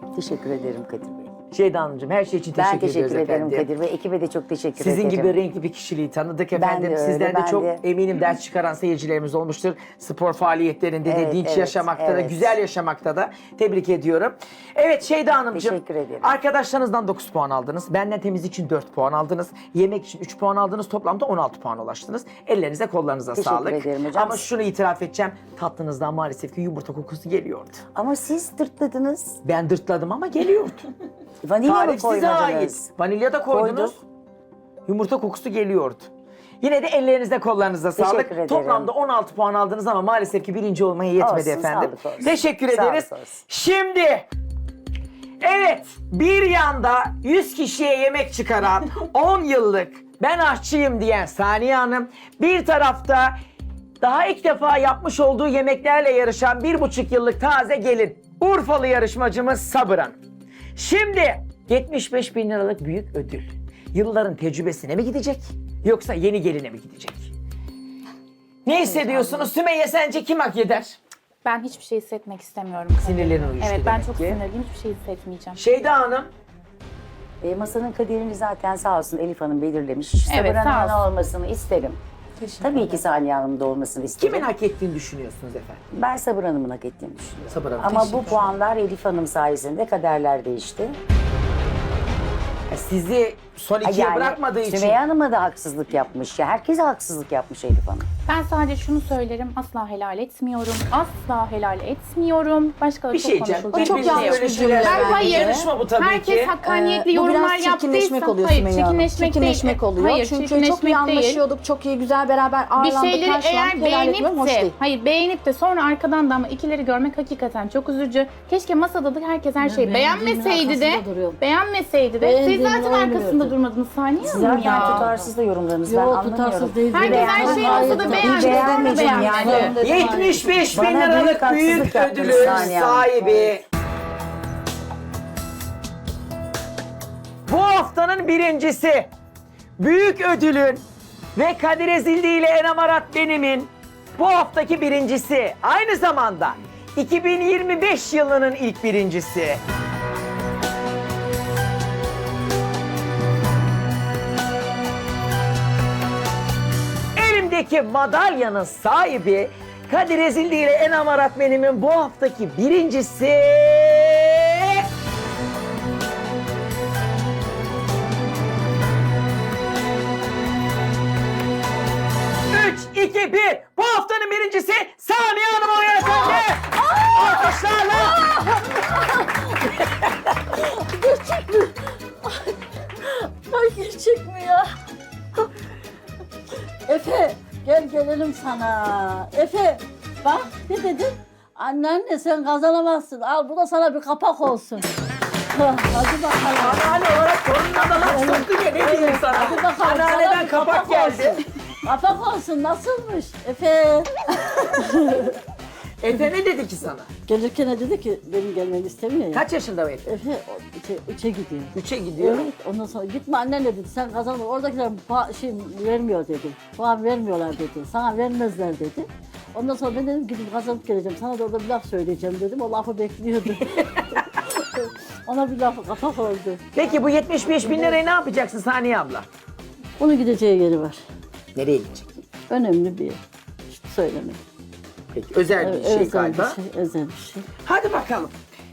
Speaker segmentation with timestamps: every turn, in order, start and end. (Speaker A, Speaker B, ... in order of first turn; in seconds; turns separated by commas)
Speaker A: 0.1-1.3, Speaker B: 1.5-3.7, Speaker A: 2.6-5.4, Speaker B: 4.8-27.8, Speaker A: 6.5-7.8, Speaker A: 11.0-12.5, Speaker A: 15.5-16.4, Speaker A: 23.3-24.4, Speaker A: 27.9-29.4, Speaker B: 29.4-30.8, Speaker A: 31.4-32.9, Speaker B: 31.6-34.0, Speaker A: 33.5-34.0, Speaker B: 34.9-36.1, Speaker B: 36.6-44.3, Speaker A: 38.0-38.9, Speaker A: 41.2-43.4, Speaker B: 45.4-53.4, Speaker B: 54.0-60.2, Speaker B: 60.8-67.3, Speaker B: 68.6-71.0, Speaker C: 68.9-69.3, Speaker C: 71.4-75.6, Speaker B: 73.0-74.4, Speaker B: 75.5-76.3, Speaker A: 77.4-82.0, Speaker C: 80.3-81.0, Speaker C: 82.4-82.8, Speaker A: 82.6-84.5, Speaker B: 84.2-85.8, Speaker A: 85.9-91.0, Speaker B: 87.5-88.5, Speaker B: 92.7-95.0, Speaker A: 93.8-98.1, Speaker C: 98.3-111.4, Speaker B: 103.1-106.5, Speaker D: 103.7-105.7, Speaker D: 106.6-114.8, Speaker C: 112.8-125.2, Speaker E: 119.6-121.4, Speaker E: 122.2-123.5, Speaker A: 124.2-129.8, Speaker E: 124.3-125.1, Speaker D: 124.5-124.9, Speaker E: 125.8-128.5, Speaker C: 126.9-129.8, Speaker D: 127.6-130.4, Speaker E: 129.7-130.2, Speaker B: 129.8-133.6, Speaker A: 130.7-133.5, Speaker B: 137.5-139.1, Speaker B: 139.8-140.8, Speaker B: 141.3-149.6, Speaker B: 157.2-164.8, Speaker B: 172.5-178.2, Speaker E: 176.0-179.9, Speaker E: 180.5-184.7, Speaker E: 186.8-194.8, Speaker E: 195.5-197.0, Speaker B: 196.6-201.4, Speaker E: 198.0-205.4, Speaker B: 206.0-207.1, Speaker E: 207.2-209.4, Speaker B: 209.3-210.1, Speaker E: 210.0-226.8, Speaker B: 211.7-212.5, Speaker B: 226.7-229.3, Speaker E: 227.5-228.0, Speaker E: 230.0-231.0, Speaker B: 231.5-232.1, Speaker E: 232.5-234.4, Speaker B: 235.1-236.6, Speaker E: 235.6-237.4, Speaker B: 237.6-238.3